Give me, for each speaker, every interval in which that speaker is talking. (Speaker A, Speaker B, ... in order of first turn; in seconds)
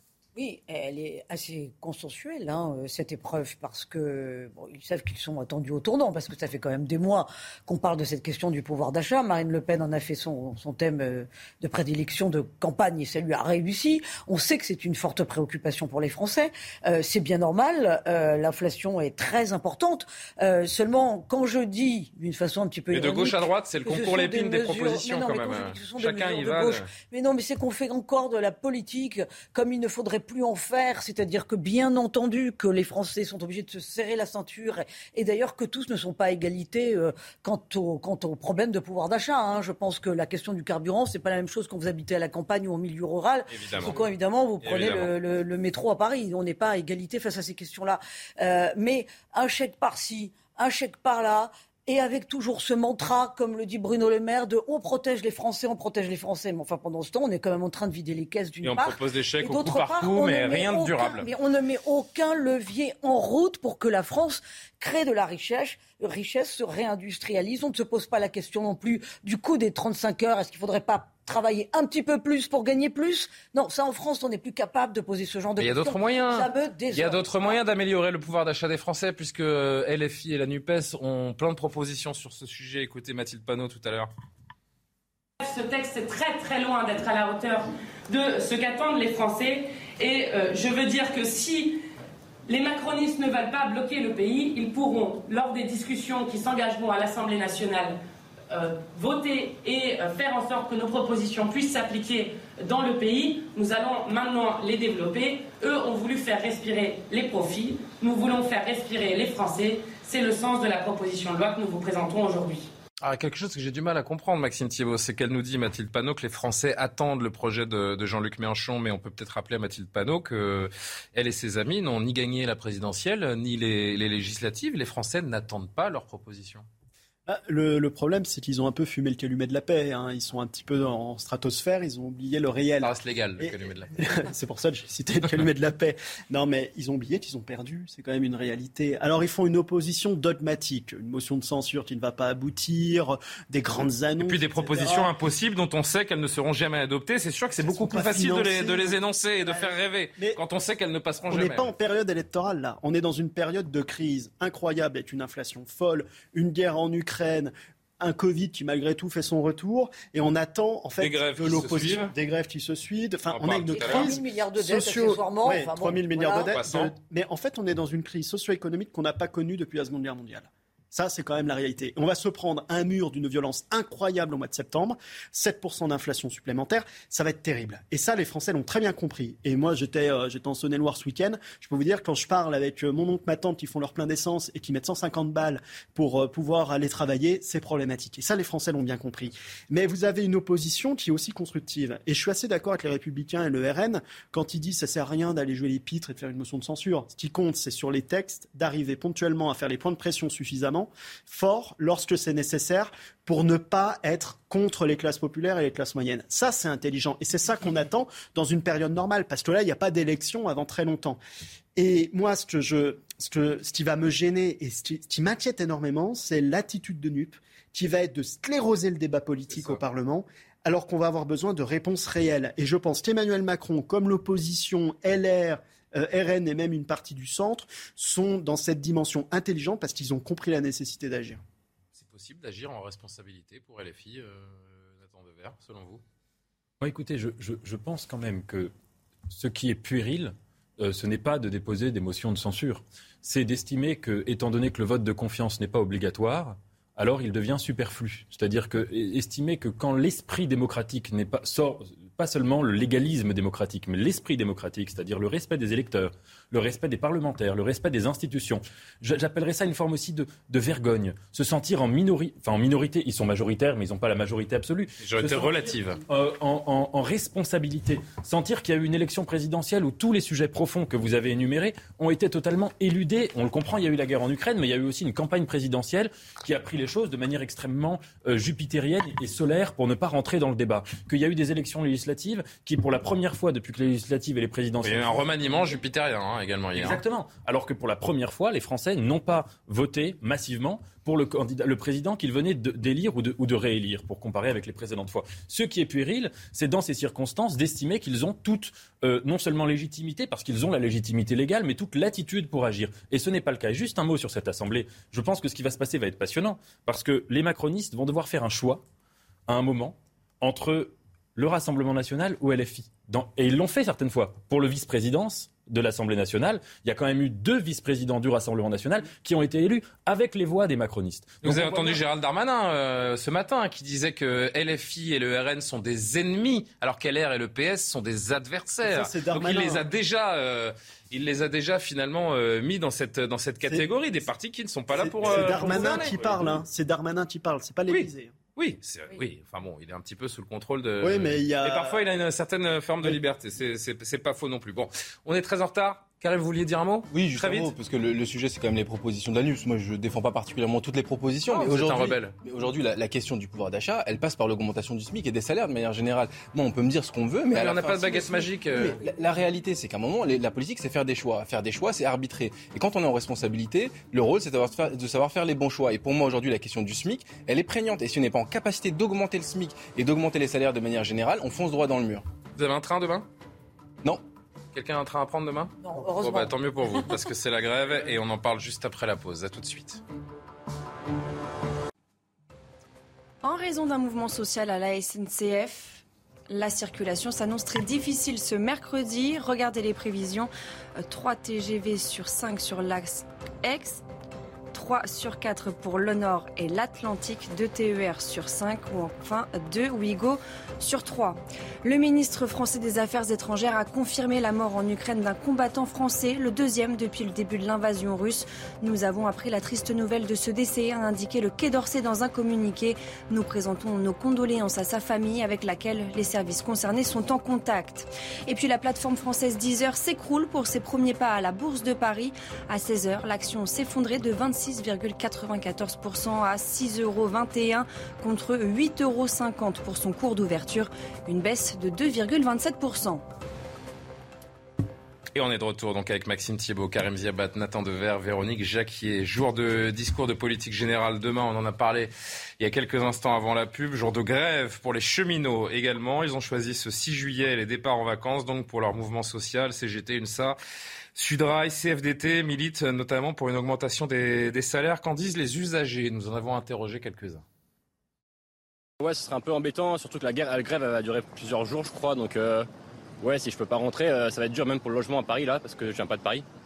Speaker A: 0.4-77.6, 163.7-166.5, 375.8-376.5
Speaker B: 22.9-26.9, 43.5-44.0, 44.6-45.1, 58.6-61.3, 75.6-84.1, 113.0-126.7, 132.8-133.9, 144.2-151.7, 161.0-162.1, 163.3-164.1, 166.5-166.9, 219.5-219.8, 231.9-236.0, 265.0-266.0, 284.8-287.0, 321.4-336.6, 337.9-347.7, 351.5-352.3, 357.5-359.0, 372.6-373.3, 374.7-380.0, 435.4-450.6, 451.1-457.4
Speaker C: 85.4-91.8, 92.5-98.0, 98.5-112.7
Speaker D: 127.3-145.1, 147.6-150.4, 151.3-211.2, 211.8-231.4, 328.8-329.9, 334.9-338.3, 341.0-342.0
Speaker E: 236.8-238.7, 239.3-285.2, 286.8-308.8, 309.5-322.0
Speaker F: 347.1-372.2
Speaker G: 383.4-394.0, 394.7-433.2
Speaker H: 459.0-462.7, 463.2-466.4